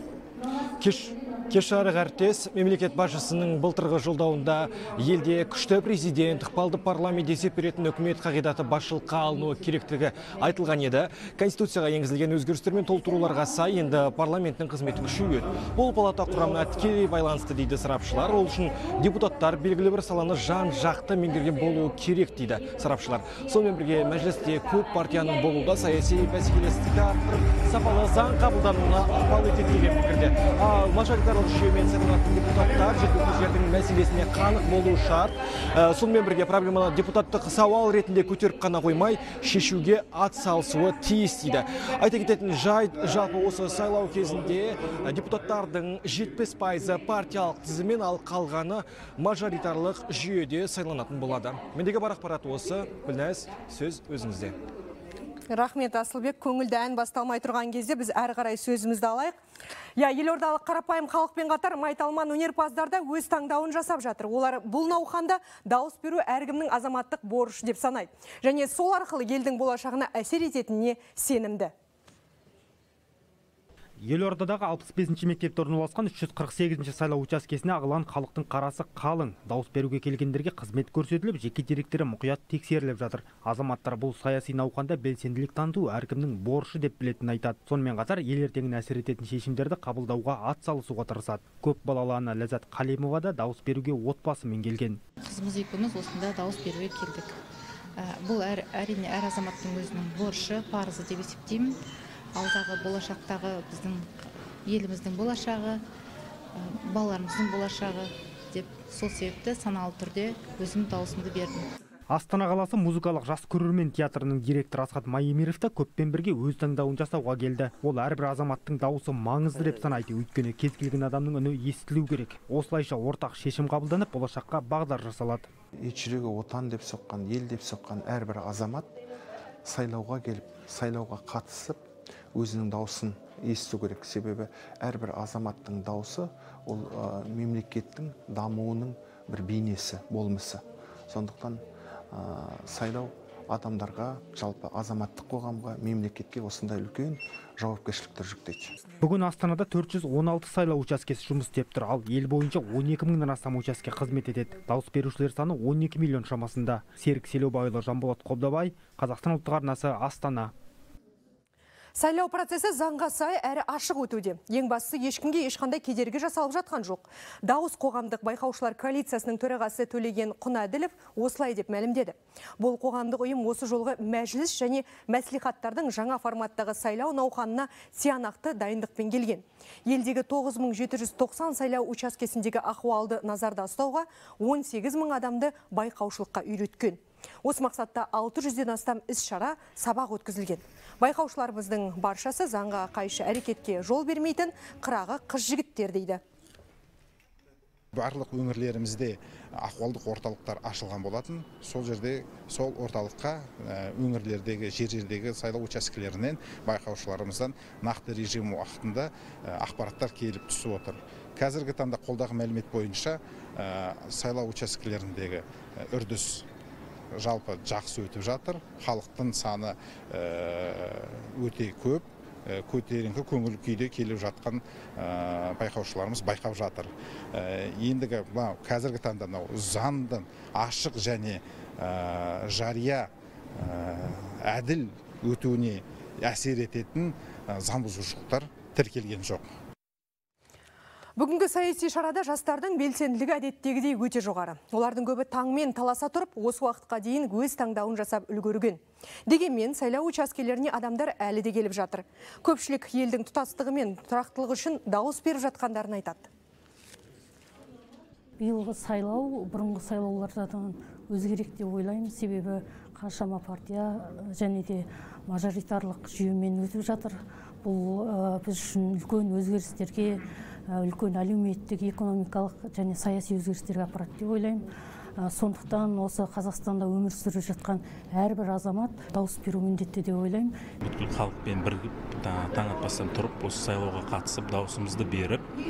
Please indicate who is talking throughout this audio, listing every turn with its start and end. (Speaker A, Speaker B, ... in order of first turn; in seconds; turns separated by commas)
Speaker A: 0.8-54.6, Speaker B: 55.5-59.4, Speaker B: 60.0-71.7, Speaker C: 74.0-95.0, Speaker D: 95.2-97.4, Speaker D: 98.0-101.8, Speaker D: 102.3-105.8, Speaker D: 106.5-111.7, Speaker C: 112.1-125.5, Speaker E: 125.8-128.9, Speaker E: 129.7-148.7, Speaker C: 149.0-160.5, Speaker B: 161.9-196.2, Speaker F: 197.9-216.4, Speaker F: 217.2-239.4, Speaker B: 241.2-256.3, Speaker G: 258.4-274.7, Speaker G: 275.2-280.6, Speaker H: 280.8-285.5